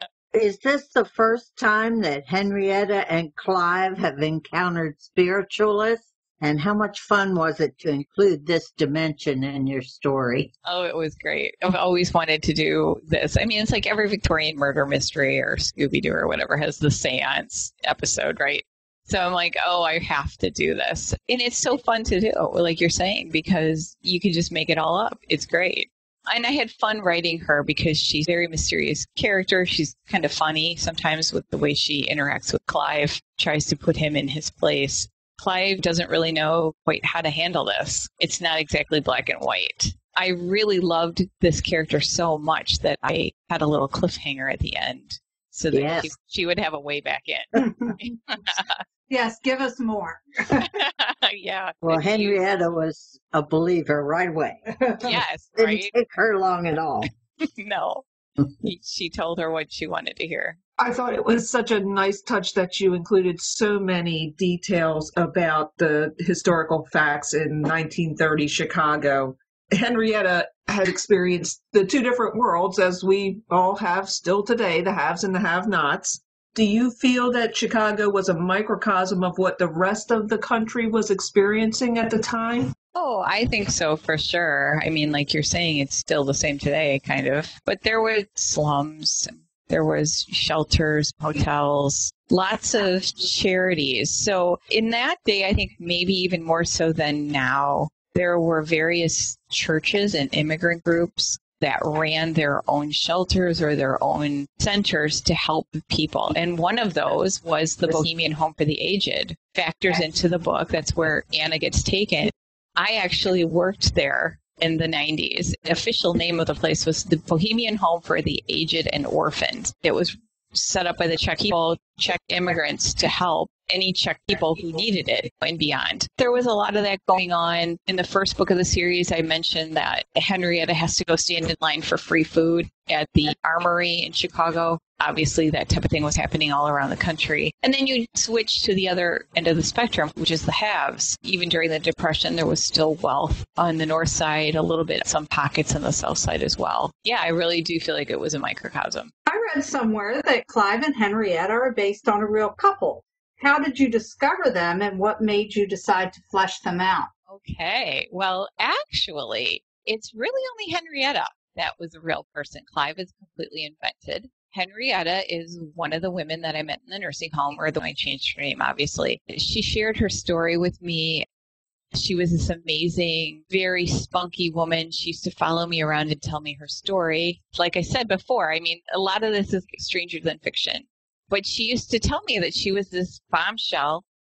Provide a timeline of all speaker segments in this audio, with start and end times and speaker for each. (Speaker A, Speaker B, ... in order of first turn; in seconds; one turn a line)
Speaker A: 0.3-10.5
Speaker B: 10.6-48.8
Speaker A: 45.7-46.1
Speaker C: 47.5-48.0
Speaker C: 49.1-50.7
Speaker B: 50.8-52.5
Speaker A: 51.8-54.6
Speaker C: 54.8-55.2
Speaker B: 55.0-55.9
Speaker A: 55.6-57.1
Speaker B: 57.6-60.6
Speaker D: 60.8-82.7
Speaker B: 82.9-149.1
Speaker C: 149.2-157.1
Speaker B: 157.3-171.2
Speaker B: 171.9-184.0